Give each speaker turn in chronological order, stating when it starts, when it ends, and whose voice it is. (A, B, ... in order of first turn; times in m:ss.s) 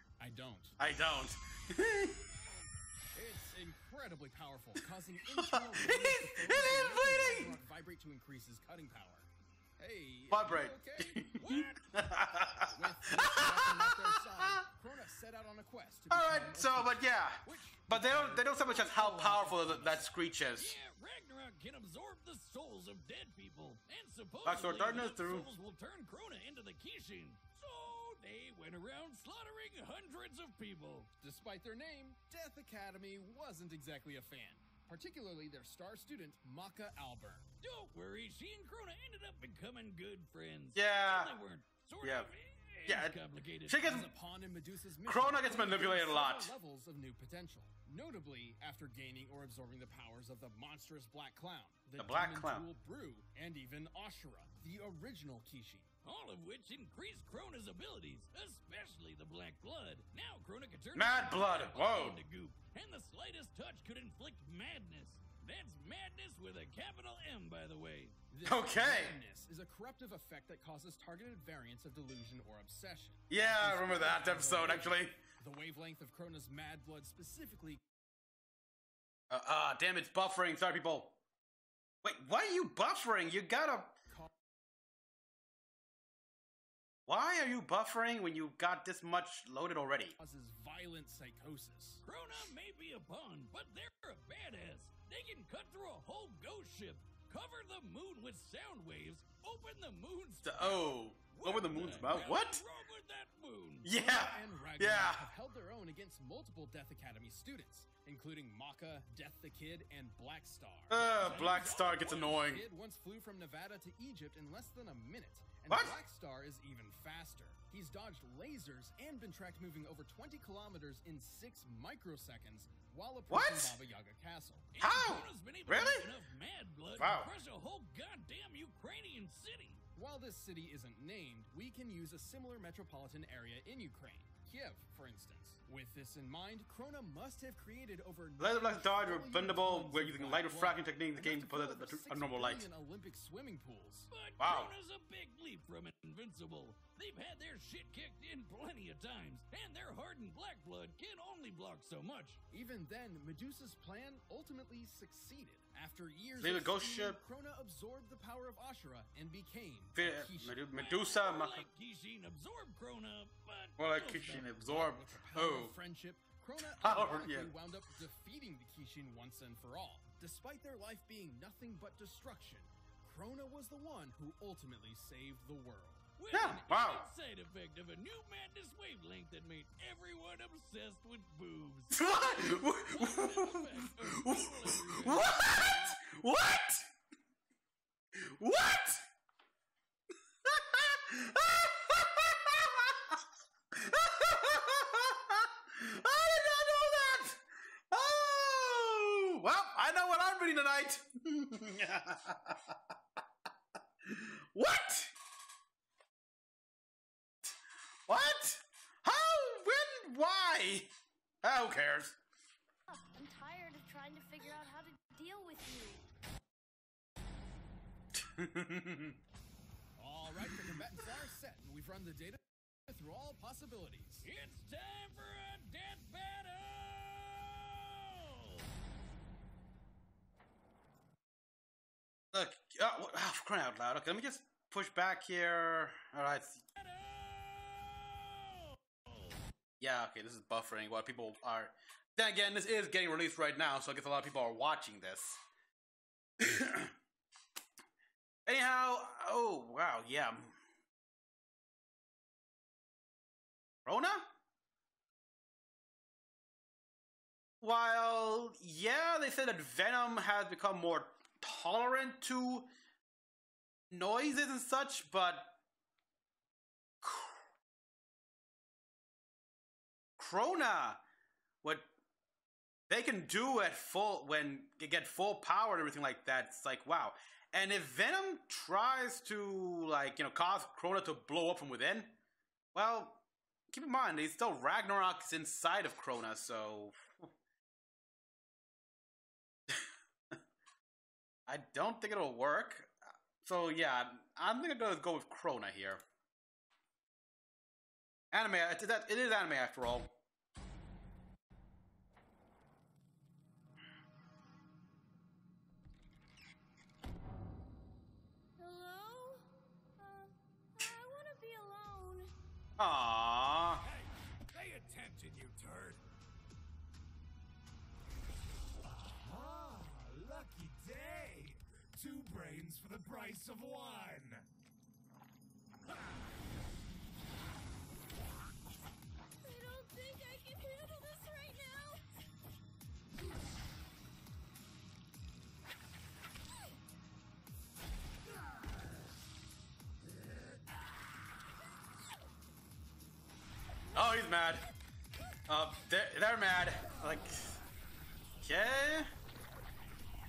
0:00.2-0:00.8 A
0:00.8-0:02.2 B
0:03.1-0:11.4 A
0:05.4-0:07.5 B
0:10.3-0:14.6 B
0:11.4-0:11.8 C
0:12.6-0:20.2 A
0:16.1-0:20.8 B
0:20.6-0:31.1 C
0:24.4-0:25.5 B
0:31.2-0:37.5 A
0:37.6-0:43.9 C
0:40.7-0:41.3 B
0:42.0-0:42.3 B
0:42.8-0:44.1 B
0:43.8-0:55.9 A
0:45.0-0:46.5 B
0:52.0-0:52.6 B
0:56.0-1:08.1 C
1:00.9-1:02.2 B
1:08.3-1:17.8 A
1:08.4-1:09.2 B
1:13.3-1:15.2 B
1:19.3-1:21.1 B
1:22.0-1:23.9 B
1:27.1-1:30.2 B
1:30.2-1:32.0 A
1:32.0-1:43.9 C
1:40.4-1:42.6 B
1:43.8-1:45.2 B
1:43.9-1:51.1 A
1:50.9-1:52.6 B
1:51.0-1:52.4 C
1:52.2-2:04.7 A
1:55.7-1:55.9 B
2:03.3-2:03.8 B
2:04.8-2:09.8 C
2:04.8-2:06.1 B
2:07.0-2:07.3 B
2:10.0-2:24.1 A
2:18.4-2:22.6 B
2:24.1-2:32.4 C
2:24.4-2:24.7 B
2:32.5-2:40.6 A
2:36.4-2:37.2 B
2:40.0-2:41.6 B
2:40.7-2:44.5 C
2:43.8-2:45.8 B
2:44.5-2:56.1 A
2:46.7-2:47.5 B
2:56.2-3:06.0 C
2:56.3-2:57.0 B
3:01.9-3:03.7 B
3:04.2-3:06.8 B
3:08.3-3:09.0 B
3:10.4-3:13.2 B
3:13.7-3:17.4 B
3:17.9-3:22.7 B
3:24.1-3:25.1 B
3:28.1-3:30.9 B
3:31.4-3:32.2 B
3:32.9-3:36.0 D
3:38.2-3:39.2 B
3:40.0-3:44.3 A
3:44.2-3:48.6 C
3:52.3-3:56.6 B
3:56.8-3:59.3 C
3:59.8-4:05.4 B
4:06.4-4:06.9 B
4:08.4-4:10.5 B
4:13.8-4:14.2 B
4:17.6-4:22.7 B
4:23.9-4:25.6 B
4:27.0-4:27.3 B
4:30.2-4:31.0 B
4:32.9-4:42.1 B
4:42.7-4:47.3 B
4:51.5-4:52.9 B
4:53.4-4:56.0 B
4:58.3-5:00.1 B
5:08.6-5:09.4 D
5:10.0-5:12.3 D
5:12.8-5:13.8 B
5:14.5-5:16.0 E
5:18.8-5:24.4 E
5:29.4-5:32.0 D
5:43.9-5:44.6 B
5:45.5-5:47.4 B
5:48.4-5:49.1 B